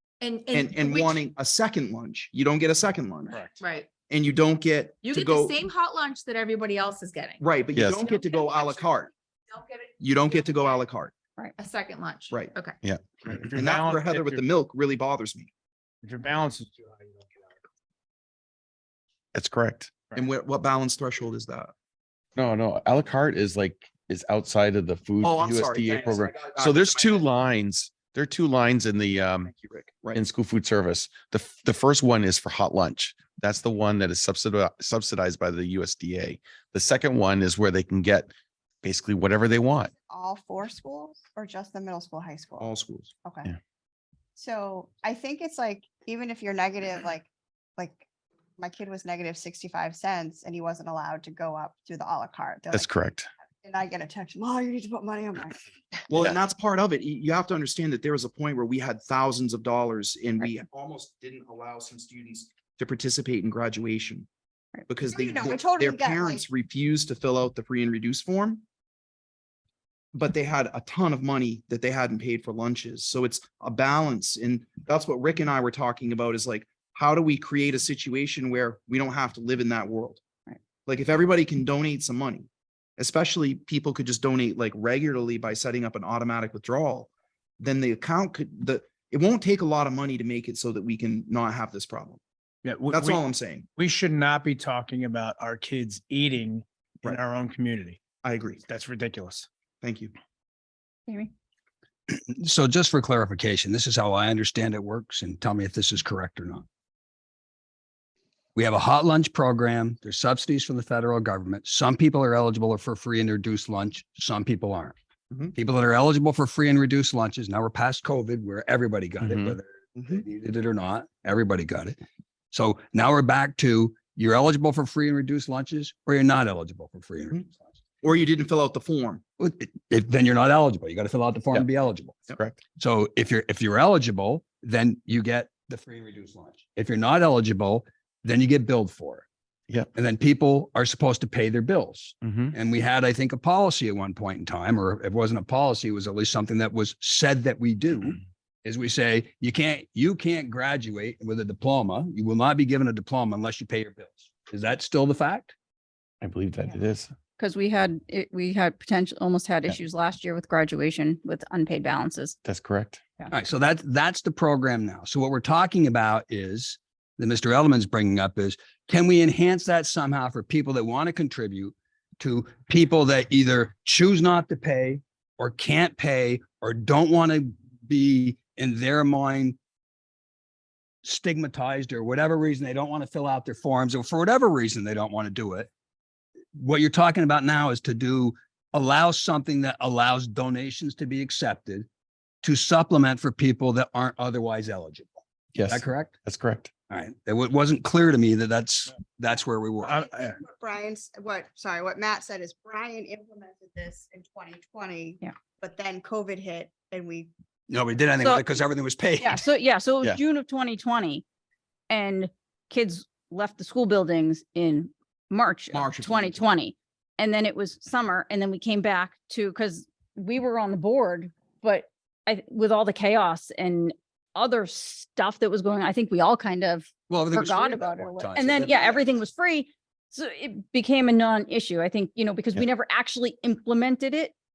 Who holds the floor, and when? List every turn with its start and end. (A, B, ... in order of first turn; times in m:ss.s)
0:00.2-0:01.2 A
0:00.5-0:03.5 B
0:03.3-0:03.6 C
0:03.6-0:03.9 A
0:04.1-0:05.5 B
0:05.0-0:07.4 A
0:07.4-0:09.1 B
0:07.8-0:08.1 D
0:08.1-0:08.8 A
0:09.5-0:09.9 A
0:10.0-0:11.1 B
0:11.6-0:12.8 A
0:12.8-0:13.5 D
0:13.3-0:14.5 C
0:13.5-0:15.5 B
0:16.0-0:17.5 C
0:19.3-0:19.9 D
0:20.1-0:21.7 B
0:22.4-0:29.5 D
0:25.2-0:27.3 B
0:29.4-0:30.2 B
0:30.1-0:38.3 D
0:38.8-0:39.9 D
0:40.1-0:42.7 E
0:42.6-0:43.1 B
0:43.2-0:43.5 E
0:44.4-0:48.0 E
0:48.6-0:52.9 E
0:52.7-0:53.3 D
0:53.6-0:55.6 E
0:56.1-1:04.3 B
1:04.9-1:08.6 B
1:05.1-1:06.5 E
1:10.2-1:20.2 B
1:20.9-1:32.2 B
1:32.6-1:33.2 C
1:32.9-1:33.7 B
1:33.8-1:38.0 C
1:38.2-1:38.6 B
1:38.7-1:39.5 C
1:39.8-1:40.1 B
1:42.1-1:46.6 F
1:48.6-1:55.0 F
1:55.5-2:02.0 F
1:59.2-1:59.6 D
2:00.0-2:00.2 B
2:02.5-2:07.5 F
2:08.0-2:09.2 B
2:09.4-2:12.2 F
2:12.3-2:12.6 D
2:12.8-2:19.2 F
2:20.0-2:35.5 F
2:22.2-2:22.5 D
2:36.2-2:37.1 D
2:37.4-2:42.4 G
2:42.5-2:43.0 D
2:43.3-2:59.6 F
3:01.0-3:05.7 F
3:06.6-3:11.9 F
3:12.4-3:16.1 F
3:15.6-3:16.7 D
3:16.9-3:20.0 F
3:19.8-3:20.4 C
3:19.9-3:27.3 E
3:27.7-3:29.4 F
3:29.2-3:31.2 G
3:31.9-3:54.3 G
3:35.7-3:36.5 B
3:47.1-3:49.0 F